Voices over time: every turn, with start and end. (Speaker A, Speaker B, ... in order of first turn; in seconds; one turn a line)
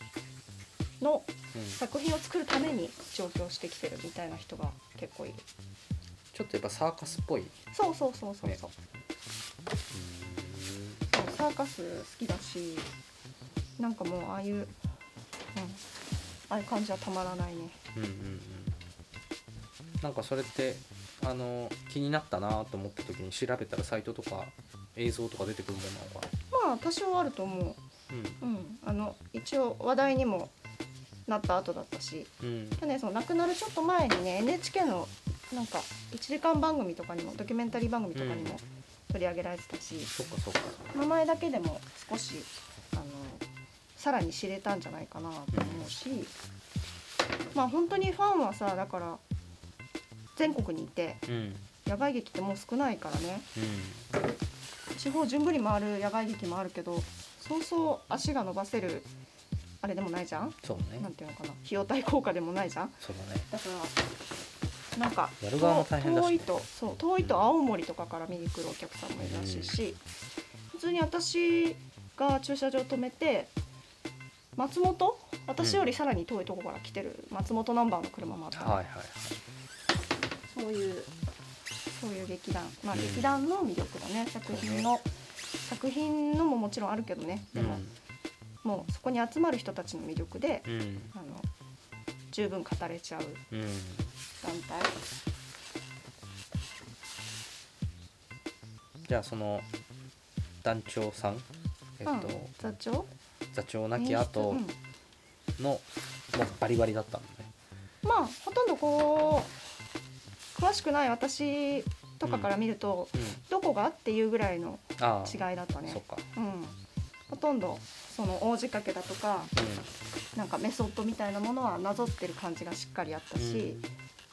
Speaker A: 1.0-5.4
Speaker B: 1.5-1.8
Speaker B: 6.3-7.6
Speaker A: 7.7-8.7
Speaker B: 9.9-11.0
Speaker A: 11.1-12.9
Speaker A: 13.8-14.7
Speaker A: 15.6-15.8
Speaker A: 16.5-17.8
Speaker B: 17.9-18.8
Speaker B: 20.0-26.3
Speaker A: 26.5-27.8
Speaker B: 28.1-28.4
Speaker A: 28.4-30.5
Speaker A: 31.3-40.1
Speaker B: 32.4-32.8
Speaker B: 38.1-38.6
Speaker B: 40.2-40.9
Speaker A: 40.9-43.4
Speaker A: 44.0-46.3
Speaker B: 45.5-45.9
Speaker A: 47.5-49.2
Speaker A: 50.4-51.2
Speaker B: 51.3-51.7
Speaker A: 51.9-53.5
Speaker B: 53.6-54.1
Speaker A: 55.0-59.1
Speaker A: 59.8-63.0
Speaker B: 60.6-61.1
Speaker B: 63.0-63.5
Speaker A: 63.5-64.0
Speaker A: 65.0-70.0
Speaker B: 65.4-66.5
Speaker B: 69.2-69.8
Speaker A: 70.7-73.5
Speaker A: 74.6-78.8
Speaker B: 75.6-75.8
Speaker B: 78.5-79.3
Speaker A: 80.5-81.1
Speaker A: 82.0-85.1
Speaker B: 82.9-83.4
Speaker B: 84.5-84.9
Speaker A: 85.7-87.8
Speaker B: 87.5-88.0
Speaker A: 88.6-91.5
Speaker B: 90.7-91.1
Speaker A: 92.3-93.4
Speaker B: 93.5-94.1
Speaker A: 94.4-95.0
Speaker B: 99.0-99.7
Speaker B: 100.6-101.5
Speaker B: 102.0-102.5
Speaker A: 102.0-103.1
Speaker B: 103.5-104.6
Speaker A: 104.0-104.8
Speaker B: 105.6-107.5
Speaker A: 108.0-109.5
Speaker A: 110.6-116.8
Speaker B: 112.2-112.5
Speaker B: 113.2-113.4
Speaker B: 115.0-116.2
Speaker A: 117.3-119.5
Speaker B: 119.6-119.9
Speaker A: 120.3-123.8
Speaker B: 123.4-123.9